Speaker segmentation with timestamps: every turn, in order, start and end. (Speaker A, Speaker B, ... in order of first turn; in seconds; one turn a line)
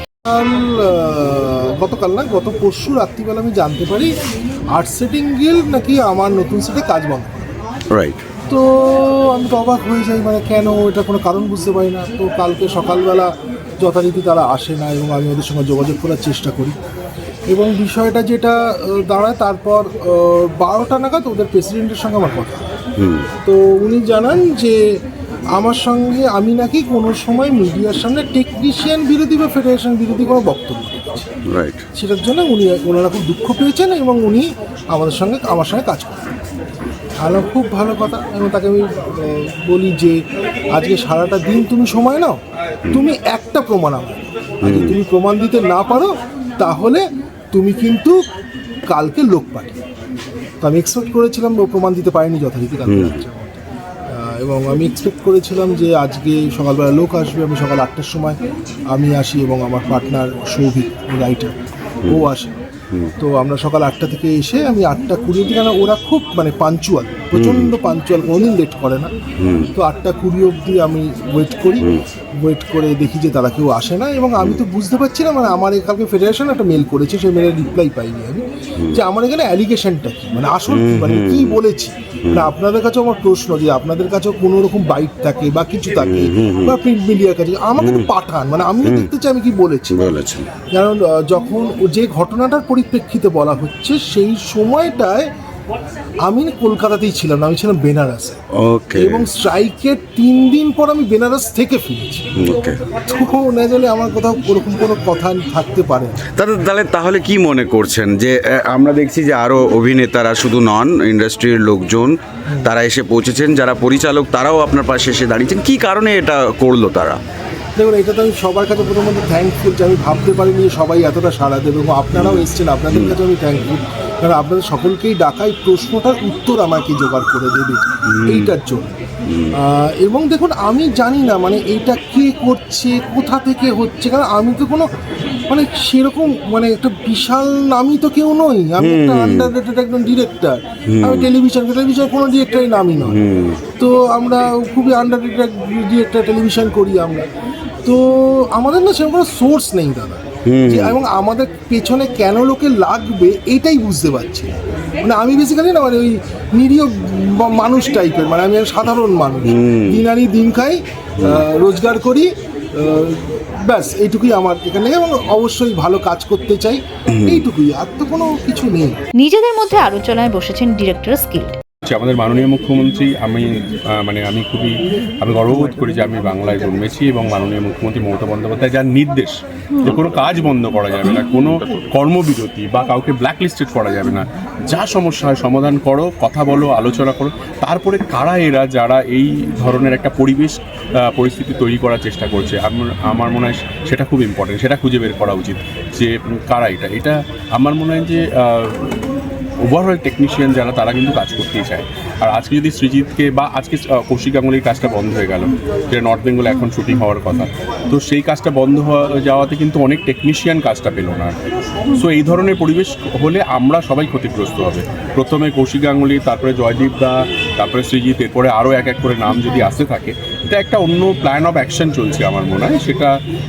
Speaker A: 0.2-4.1
Speaker A: 4.7-7.6
Speaker B: 7.9-8.2
Speaker A: 8.4-16.8
Speaker A: 17.5-22.7
Speaker B: 23.0-23.3
Speaker A: 23.4-25.0
Speaker A: 25.6-31.3
Speaker B: 31.5-31.9
Speaker A: 31.9-36.3
Speaker A: 37.2-40.2
Speaker A: 40.7-42.4
Speaker A: 42.9-48.2
Speaker B: 44.6-44.9
Speaker A: 48.9-49.8
Speaker A: 50.6-58.4
Speaker B: 52.9-53.2
Speaker A: 58.9-61.5
Speaker A: 62.1-62.5
Speaker A: 63.2-69.1
Speaker B: 67.4-67.7
Speaker B: 69.4-69.7
Speaker A: 69.7-71.9
Speaker A: 72.4-90.1
Speaker B: 80.7-81.6
Speaker B: 86.0-86.7
Speaker B: 87.8-88.1
Speaker B: 88.8-89.1
Speaker B: 89.9-90.5
Speaker A: 90.7-95.3
Speaker A: 96.3-98.4
Speaker B: 98.5-99.3
Speaker A: 99.0-102.4
Speaker B: 102.4-102.8
Speaker A: 102.9-106.2
Speaker B: 106.3-117.2
Speaker A: 117.8-128.9
Speaker B: 122.2-123.2
Speaker B: 128.1-128.5
Speaker B: 129.3-129.5
Speaker A: 129.5-134.9
Speaker A: 135.5-143.2
Speaker B: 138.8-139.5
Speaker B: 140.9-141.3
Speaker B: 143.1-143.6
Speaker A: 143.8-147.3
Speaker A: 147.8-169.0
Speaker B: 150.4-151.0
Speaker B: 159.4-160.0
Speaker B: 161.2-161.4
Speaker B: 167.1-167.4
Speaker C: 169.2-171.6
Speaker D: 171.8-190.6
Speaker D: 191.1-198.9
Speaker D: 199.7-211.3
Speaker D: 211.9-223.1